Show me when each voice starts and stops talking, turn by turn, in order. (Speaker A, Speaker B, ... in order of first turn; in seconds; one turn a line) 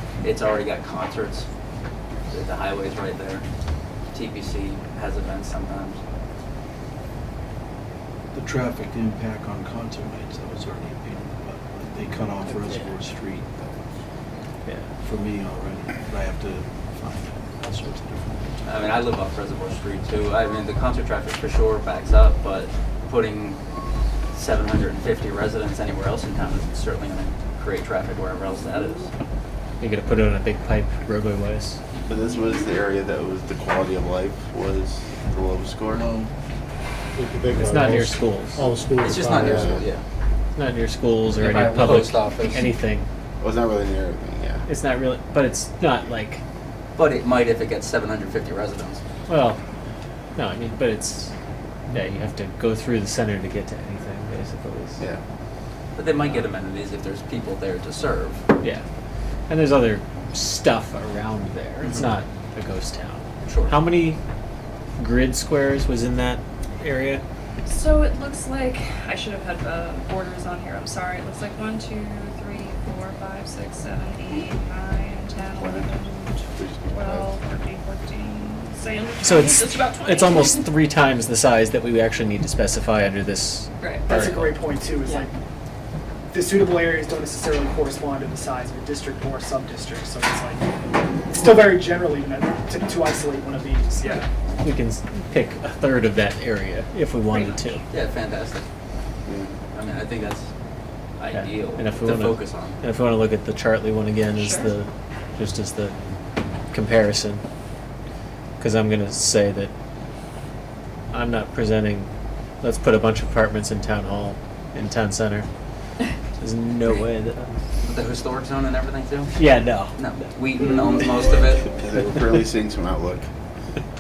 Speaker A: 0.2-1.5
Speaker A: 2.3-3.4
Speaker A: 4.1-6.0
Speaker B: 8.3-13.6
Speaker B: 15.0-19.1
Speaker A: 18.6-23.6
Speaker A: 24.3-29.1
Speaker C: 29.8-31.8
Speaker D: 32.0-36.0
Speaker B: 36.0-36.3
Speaker E: 37.1-39.8
Speaker C: 37.5-38.7
Speaker A: 38.9-40.0
Speaker D: 39.4-39.9
Speaker C: 40.5-43.1
Speaker A: 41.3-42.7
Speaker D: 43.4-44.6
Speaker C: 44.7-46.4
Speaker A: 47.0-49.0
Speaker C: 49.3-49.6
Speaker C: 50.4-51.3
Speaker C: 51.9-55.0
Speaker A: 55.9-58.4
Speaker C: 59.5-64.2
Speaker A: 63.4-63.8
Speaker C: 65.0-67.2
Speaker F: 67.7-80.7
Speaker D: 75.6-76.0
Speaker D: 76.5-77.4
Speaker C: 79.2-84.6
Speaker F: 83.8-84.1
Speaker G: 84.1-85.3
Speaker G: 86.3-90.7
Speaker G: 91.3-94.2
Speaker C: 94.6-97.8
Speaker F: 97.3-97.6
Speaker A: 97.9-98.7
Speaker D: 99.3-99.5
Speaker A: 99.7-100.5
Speaker A: 101.2-102.8
Speaker C: 101.3-106.0
Speaker F: 104.3-104.7
Speaker C: 106.7-107.4
Speaker C: 108.6-109.7
Speaker C: 111.1-112.1
Speaker C: 112.6-115.5
Speaker C: 116.4-117.6
Speaker A: 117.8-121.7
Speaker C: 119.3-120.0
Speaker D: 121.7-123.3